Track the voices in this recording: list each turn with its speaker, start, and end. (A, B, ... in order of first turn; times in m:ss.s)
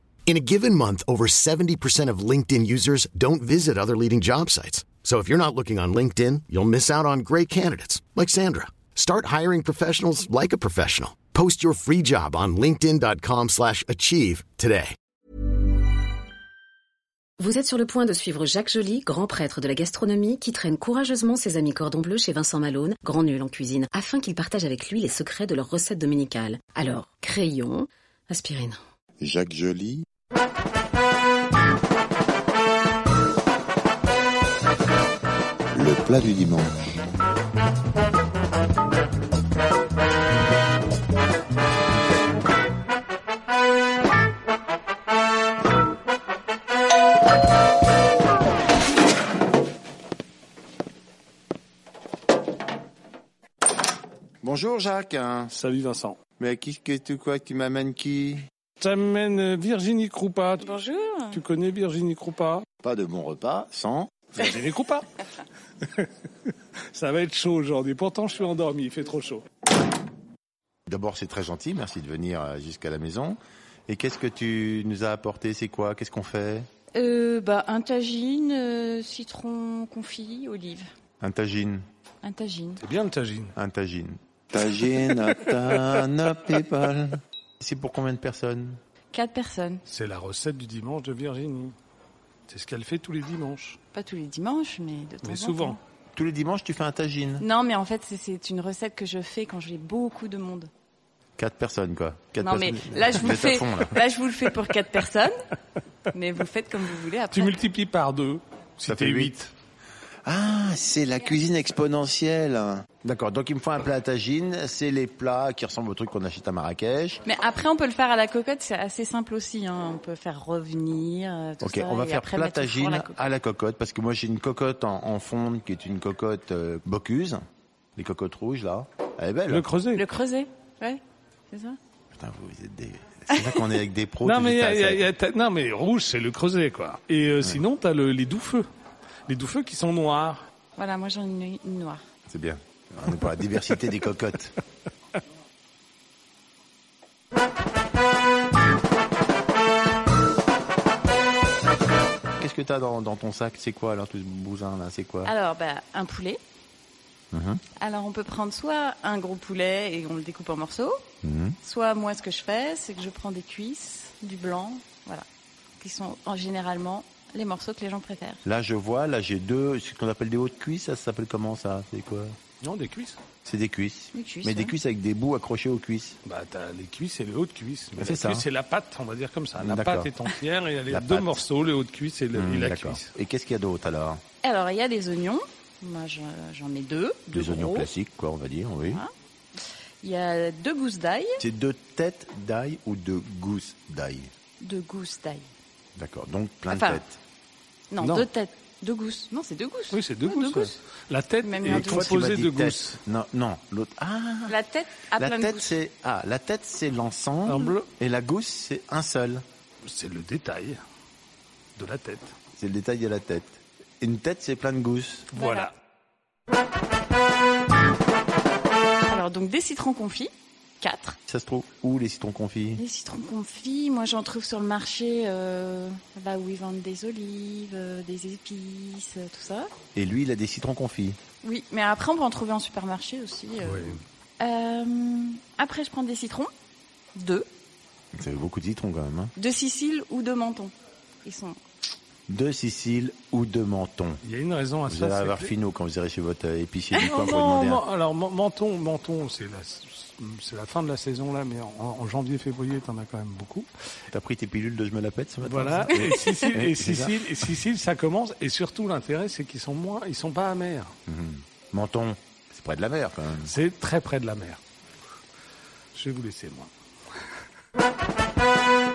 0:00.3-0:15.0 A
0:17.4-0:28.8 B
0:29.2-0:30.0 C
0:35.7-0:36.8 C
0:54.4-0:55.5 C
0:55.5-0:56.2 D
0:56.4-0:58.4 C
0:58.8-1:00.7 D
1:00.6-1:01.4 E
1:01.3-1:02.6 D
1:02.8-1:04.3 C
1:04.4-1:05.1 D
1:05.8-1:09.4 D
1:10.9-1:16.7 C
1:17.0-1:20.9 E
1:21.2-1:21.8 C
1:22.2-1:22.8 E
1:22.8-1:23.5 D
1:23.6-1:28.8 C
1:29.1-1:29.8 E
1:29.9-1:31.8 D
1:32.5-1:33.8 D
1:33.9-1:35.8 E
1:35.2-1:35.8 D
1:36.2-1:37.5 C
1:37.4-1:40.7 E
1:41.4-1:44.0 C
1:42.4-1:45.3 E
1:46.1-1:47.6 E
1:47.3-1:49.5 D
1:48.8-1:49.4 C
1:50.2-1:57.2 C
1:57.3-2:03.3 E
2:01.6-2:07.4 C
2:08.0-2:09.7 C
2:09.5-2:10.1 D
2:10.0-2:11.0 E
2:11.5-2:11.8 E
2:12.2-2:15.1 C
2:14.2-2:18.7 D
2:19.3-2:20.4 D
2:20.8-2:22.0 E
2:22.3-2:24.6 C
2:32.4-2:35.3 C
2:35.2-2:36.4 E
2:37.3-2:37.6 C
2:37.8-2:41.0 E
2:41.2-2:41.6 C
2:41.6-2:45.2 E
2:45.8-2:48.4 E
2:48.4-2:52.4 C
2:52.6-2:53.2 D
2:53.4-2:56.2 C
2:54.1-2:54.7 E
2:56.2-3:03.1 D
2:58.0-2:58.4 C
2:59.6-3:00.1 C
3:00.9-3:01.4 C
3:02.3-3:04.2 C
3:04.4-3:07.9 E
3:07.3-3:09.0 C
3:10.0-3:11.4 E
3:11.4-3:14.3 C
3:14.6-3:15.5 E
3:16.0-3:17.2 C
3:16.7-3:17.0 E
3:17.9-3:20.8 E
3:18.0-3:18.3 D
3:19.9-3:23.0 D
3:21.4-3:22.1 E
3:21.6-3:24.6 C
3:24.5-3:25.8 E
3:25.2-3:29.4 C
3:27.5-3:27.9 D
3:29.9-3:30.8 D
3:31.8-3:32.4 D
3:32.6-3:35.3 C
3:35.3-3:35.7 D
3:35.4-3:35.7 E
3:39.1-3:41.2 E
3:41.3-3:42.8 C
3:42.8-3:49.7 E
3:50.0-3:51.2 C
3:51.4-3:56.5 E
3:53.6-3:54.0 D
3:57.2-3:57.5 E
3:58.1-3:59.3 C
3:59.4-4:00.7 E
4:01.2-4:01.6 E
4:02.3-4:04.2 C
4:04.2-4:05.5 D
4:04.9-4:07.8 C
4:07.0-4:13.7 D
4:14.1-4:17.2 C
4:15.4-4:20.9 D
4:21.1-4:23.5 C
4:23.4-4:24.6 D
4:25.9-4:26.7 D